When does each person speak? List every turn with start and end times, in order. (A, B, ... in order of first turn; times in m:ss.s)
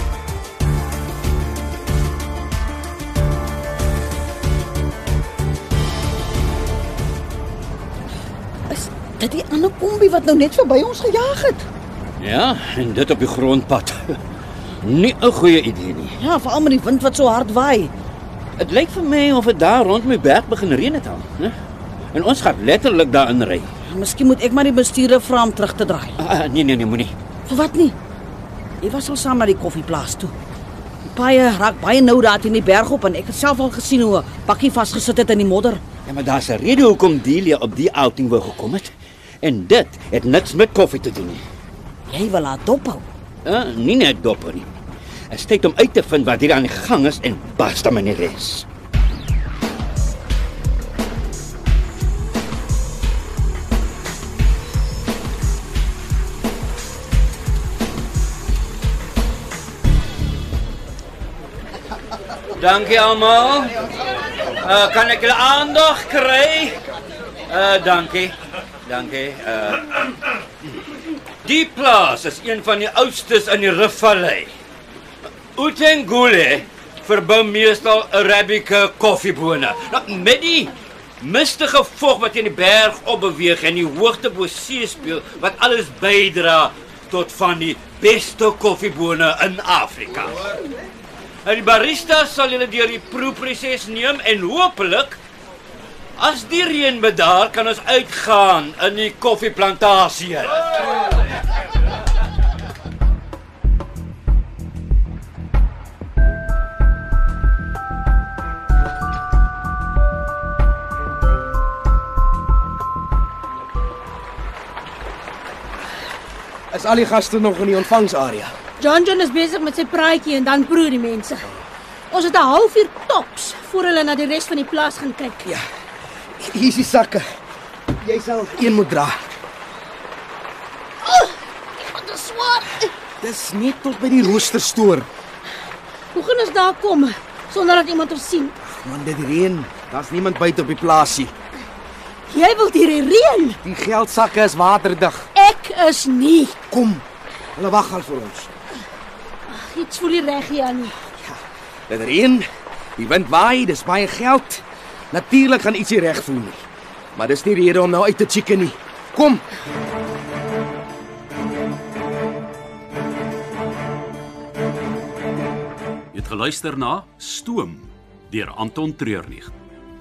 0:08.7-0:11.6 A
0:12.2-0:14.2 B
0:14.8-0:16.1 B
0:16.2-0:17.9 A
0:18.6-0:21.6 B
0:22.1-0:23.7 B
0:23.9-0:26.2 A
0:26.2-0:27.1 B
0:27.5-0:28.0 A
0:28.8-0:30.3 A
0:31.1-0:35.8 A
0:36.0-0:41.4 B
0:42.1-0:43.0 A
0:43.4-0:44.7 B
0:45.3-0:48.6 B
1:02.6-1:03.9 B
1:04.6-1:06.8 B
1:07.5-1:10.2 B
1:11.4-1:14.5 B
1:15.5-1:30.5 B
1:31.4-1:35.2 B
1:36.2-1:40.9 B
1:56.7-1:58.5 C
1:58.8-2:01.4 D
2:02.1-2:05.5 D
2:06.4-2:07.2 C
2:08.0-2:09.2 C
2:11.0-2:12.9 D
2:13.2-2:15.1 C
2:16.1-2:18.6 D
2:18.6-2:21.3 C
2:22.3-2:23.6 D
2:23.6-2:25.3 C
2:25.3-2:26.6 D
2:26.7-2:27.0 C
2:27.5-2:28.5 C
2:29.5-2:31.0 D
2:31.9-2:32.4 C
2:33.0-2:36.6 C
2:37.1-2:39.4 C
2:46.1-2:49.5 E